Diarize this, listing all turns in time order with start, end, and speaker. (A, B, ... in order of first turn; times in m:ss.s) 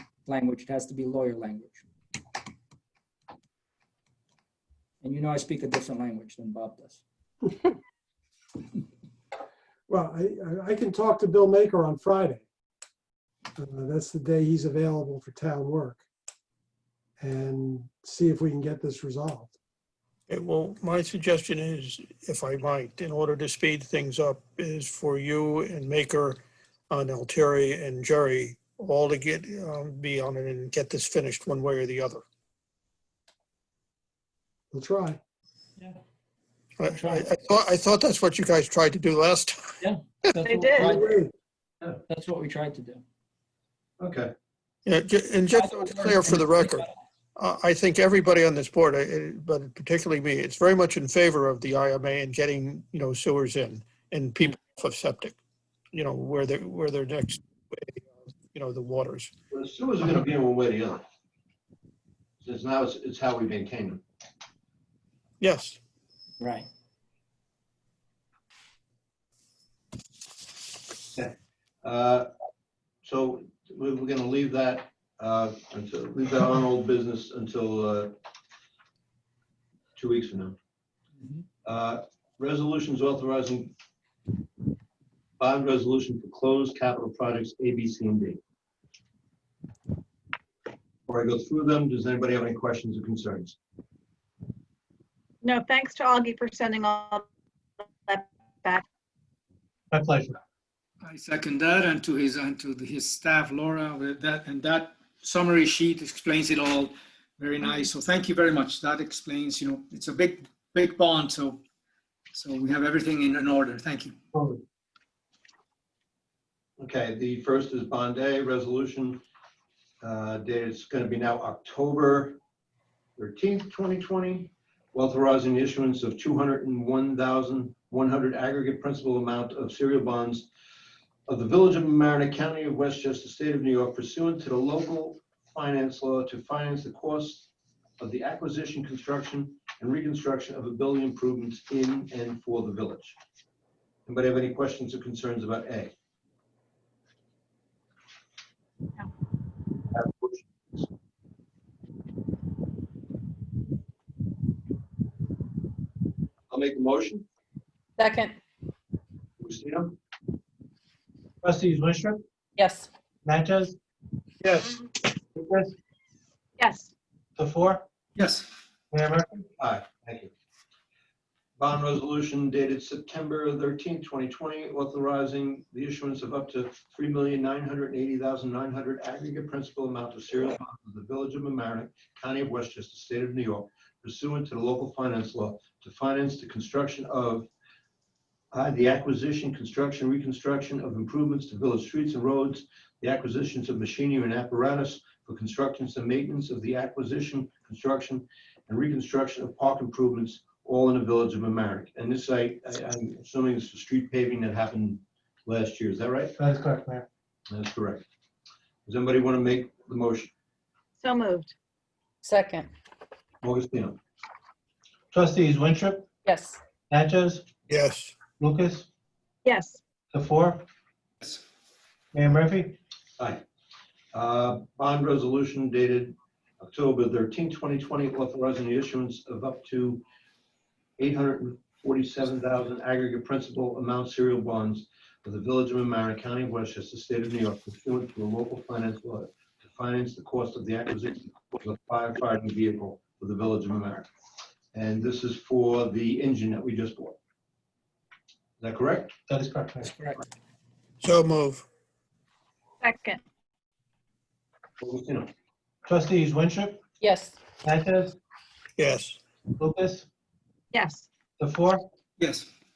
0:00.2-0:01.8 A
0:05.0-0:07.0 A
0:09.9-0:12.4 B
0:13.6-0:16.0 B
0:17.2-0:19.5 B
0:20.3-0:32.2 C
0:34.7-0:35.2 B
0:36.8-0:39.8 C
0:36.8-0:37.3 A
0:39.8-0:41.2 A
0:40.4-0:40.9 D
0:40.8-0:41.3 B
0:42.0-0:43.0 A
0:44.0-0:44.3 E
0:44.9-0:55.4 C
0:45.5-0:46.9 A
0:55.9-0:58.0 C
0:58.5-0:59.3 C
0:59.5-1:01.0 E
1:02.4-1:04.0 E
1:05.4-1:05.8 C
1:06.4-1:06.7 A
1:11.8-1:12.3 E
1:13.0-1:18.1 E
1:20.0-1:20.6 E
1:21.6-1:23.7 E
1:25.4-1:28.4 E
1:31.1-1:33.6 E
1:35.4-1:37.3 D
1:38.1-1:38.8 D
1:39.9-1:40.4 F
1:41.0-1:51.6 G
1:52.3-1:54.2 G
1:56.8-1:59.2 E
2:00.0-2:02.4 E
2:03.2-2:10.5 E
2:11.3-2:23.2 E
2:24.0-2:25.9 E
2:29.9-2:30.9 E
2:36.5-2:37.2 E
2:38.0-2:38.4 H
2:39.4-2:39.9 E
2:41.4-2:42.2 F
2:42.6-2:42.9 H
2:43.2-2:43.8 F
2:44.4-2:45.7 F
2:46.6-2:46.9 D
2:47.4-2:47.8 F
2:48.2-2:48.5 G
2:48.9-2:49.4 F
2:49.6-2:50.3 E
2:51.6-3:07.5 E
3:08.5-3:26.3 E
3:26.4-3:27.1 F
3:27.5-3:28.0 E
3:28.8-3:30.3 E
3:31.0-3:31.5 D
3:32.2-3:32.7 H
3:33.4-3:34.0 E
3:35.1-3:36.1 F
3:36.2-3:36.6 H
3:36.9-3:37.4 F
3:37.7-3:38.1 C
3:38.4-3:38.9 F
3:39.4-3:39.8 D
3:40.1-3:40.6 F
3:42.1-3:42.8 F
3:44.1-3:50.0 E
3:51.0-4:04.1 E
4:04.7-4:07.2 E
4:08.6-4:09.1 E
4:09.3-4:09.9 F
4:09.8-4:10.2 A
4:11.0-4:11.7 C
4:12.8-4:13.2 D
4:14.8-4:15.3 E
4:15.8-4:16.8 F
4:17.0-4:17.4 H
4:17.6-4:18.2 F
4:18.8-4:19.2 C
4:19.6-4:20.0 F
4:20.7-4:21.1 D
4:21.4-4:21.8 F
4:22.2-4:22.5 G